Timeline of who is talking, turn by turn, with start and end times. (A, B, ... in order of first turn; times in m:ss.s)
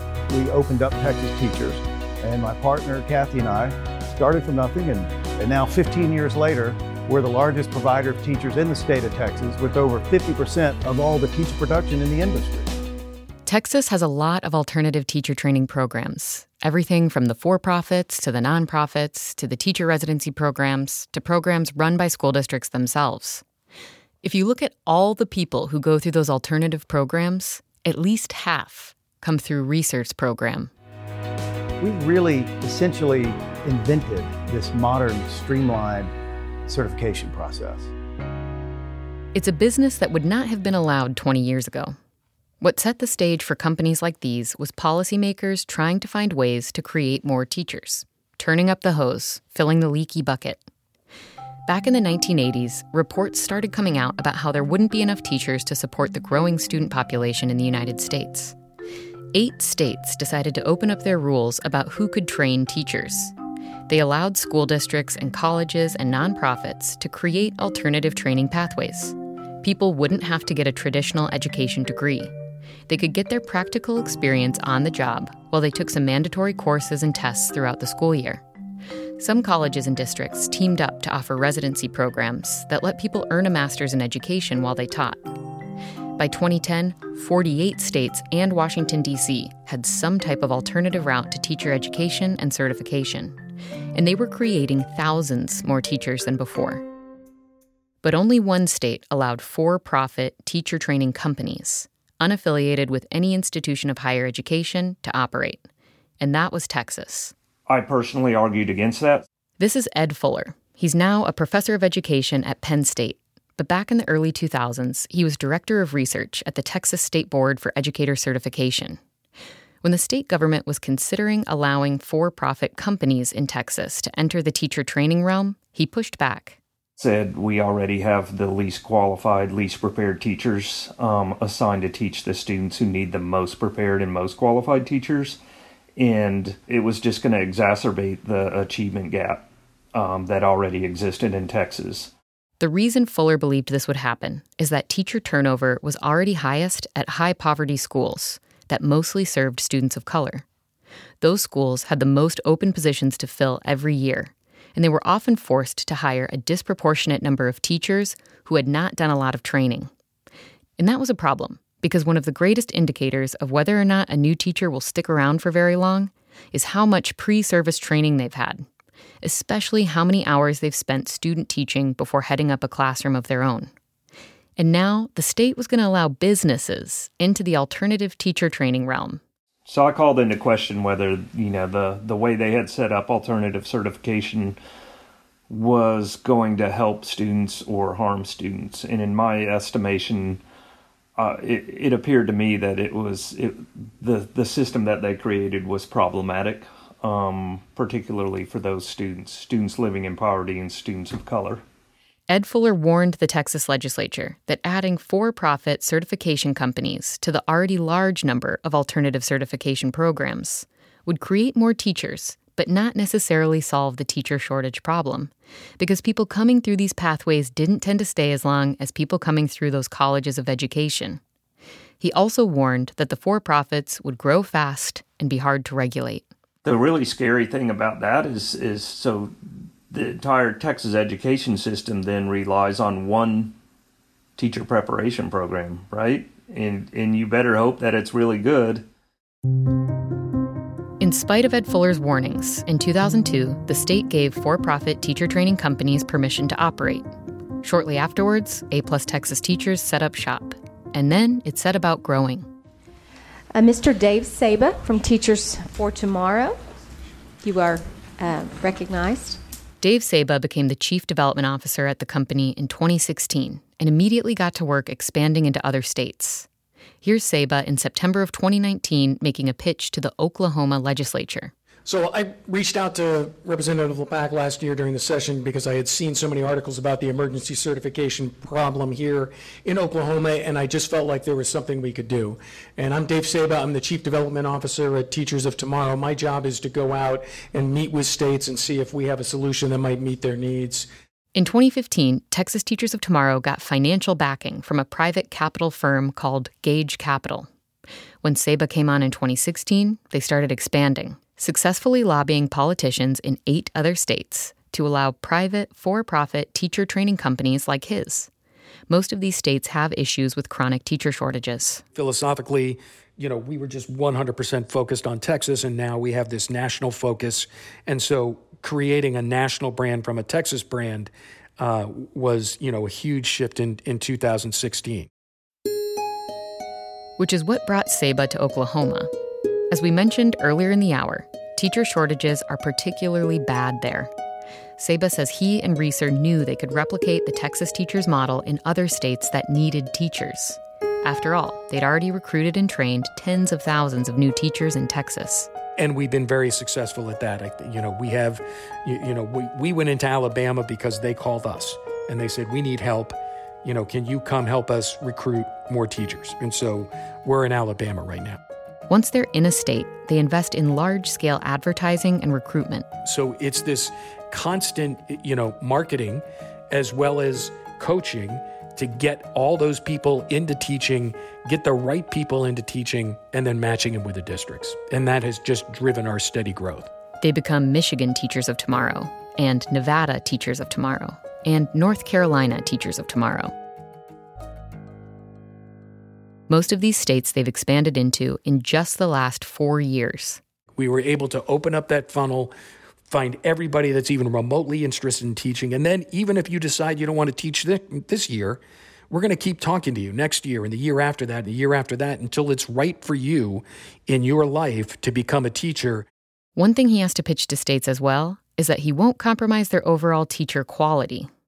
0:00.3-0:12.8 A
0:13.4-0:23.4 B
0:24.2-0:30.7 B
0:31.8-0:36.1 A
0:36.7-0:37.9 A
0:39.3-0:42.0 B
0:42.6-0:50.6 B
0:51.7-0:58.5 B
0:59.3-1:03.3 B
1:03.9-1:12.3 B
1:12.9-1:18.4 B
1:19.2-1:25.2 B
1:26.2-1:33.4 B
1:33.9-1:36.8 B
1:38.0-1:45.7 B
1:46.2-1:47.3 B
1:47.7-1:49.2 C
1:49.6-1:59.0 B
1:59.8-2:06.6 B
2:07.0-2:15.4 C
2:16.0-2:22.1 C
2:22.6-2:30.4 B
2:31.2-2:39.9 B
2:40.8-2:48.6 B
2:49.2-2:53.7 B
2:54.6-2:59.2 B
2:59.6-3:04.6 C
3:05.5-3:10.4 C
3:11.2-3:21.6 C
3:22.3-3:41.2 B
3:42.0-3:46.2 B
3:46.6-3:49.3 C
3:49.9-3:53.6 C
3:54.4-3:58.8 C
4:01.0-4:07.0 B
4:07.6-4:12.5 B
4:13.5-4:16.6 D
4:17.4-4:19.4 D
4:19.8-4:26.5 B
4:27.0-4:31.5 B
4:31.8-4:50.9 E
4:51.3-4:57.5 B
4:58.2-5:08.3 B
5:08.9-5:11.8 B
5:11.9-5:25.1 E
5:27.2-5:29.1 B
5:29.7-5:34.1 B
5:34.8-5:45.5 B
5:45.8-5:58.4 E
5:58.9-6:02.9 B
6:03.0-6:16.9 E
6:17.2-6:23.5 B
6:26.5-6:30.4 B
6:30.8-6:32.5 E
6:33.1-6:46.0 E
6:46.6-6:51.3 B